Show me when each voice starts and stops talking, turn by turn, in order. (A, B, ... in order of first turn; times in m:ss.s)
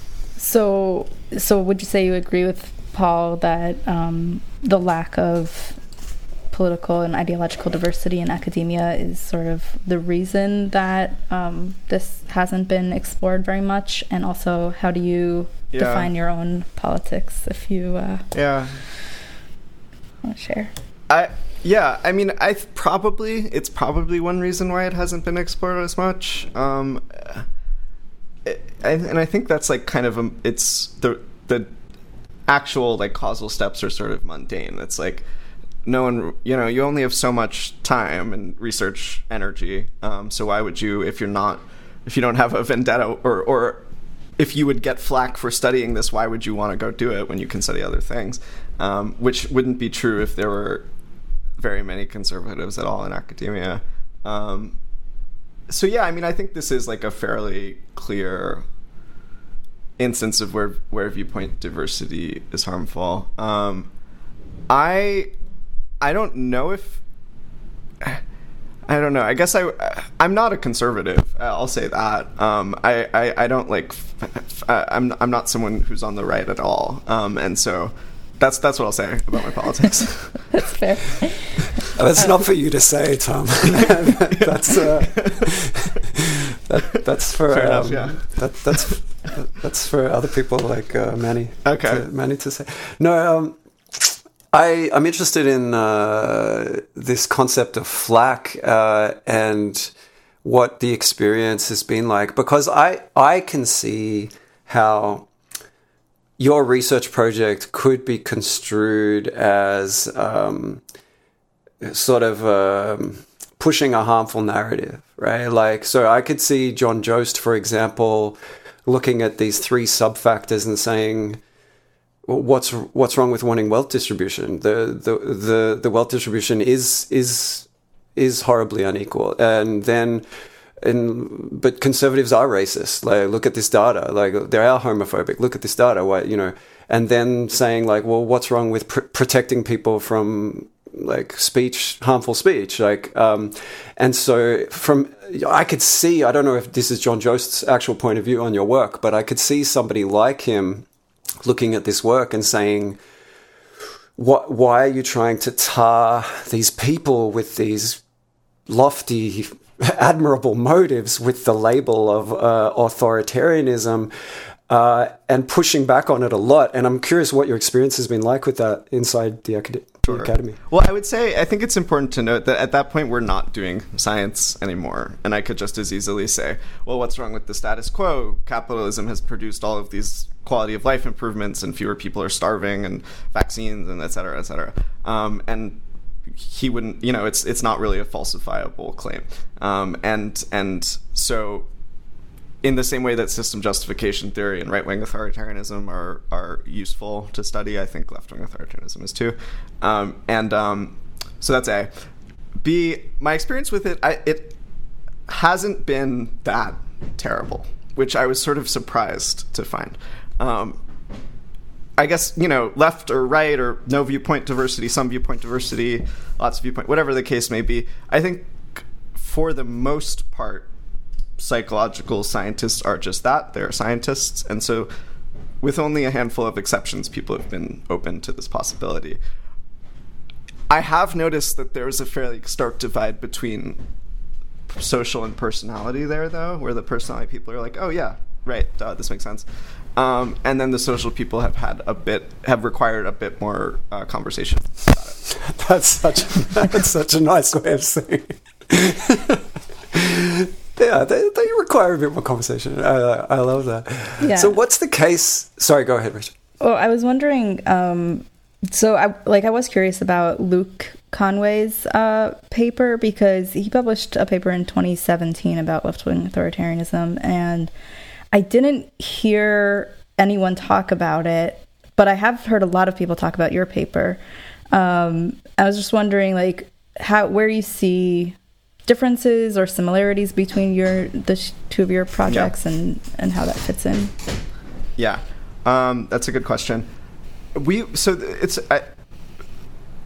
0:00.4-0:05.8 A
0:06.5-0:18.2 A
0:15.7-0:16.1 B
0:18.3-0:18.8 B
0:20.2-0:20.7 A
0:21.1-0:27.4 B
0:28.4-0:31.7 B
0:32.5-0:35.2 B
0:35.8-0:43.8 B
0:44.4-0:50.8 B
0:51.6-0:54.8 B
0:55.7-0:58.6 B
1:00.0-1:03.9 B
1:04.7-1:05.3 B
1:06.0-1:07.0 B
1:08.9-1:20.5 B
1:20.5-1:21.6 A
1:21.9-1:39.9 C
1:23.8-1:25.5 B
1:27.5-1:29.0 B
1:31.6-1:32.0 B
1:40.4-1:45.3 C
1:46.4-1:50.8 C
1:51.8-2:01.4 C
2:02.2-2:10.2 C
2:10.8-2:30.8 C
2:31.4-2:33.0 C
2:34.2-2:38.0 C
2:38.7-2:44.1 C
2:44.7-2:50.6 C
2:50.1-3:05.8 B
3:06.4-3:11.7 B
3:12.6-3:21.9 B
3:22.6-3:24.6 B
3:25.3-3:30.8 B
3:32.0-3:40.7 B
3:41.4-3:44.9 B
3:45.6-3:49.2 B
3:50.7-3:53.8 B
3:54.7-4:05.2 B
4:05.3-4:16.3 C
4:14.2-4:14.5 A
4:16.6-4:27.7 A
4:28.3-4:34.2 A
4:34.7-4:44.1 A
4:45.0-4:46.9 B
4:47.5-4:48.8 B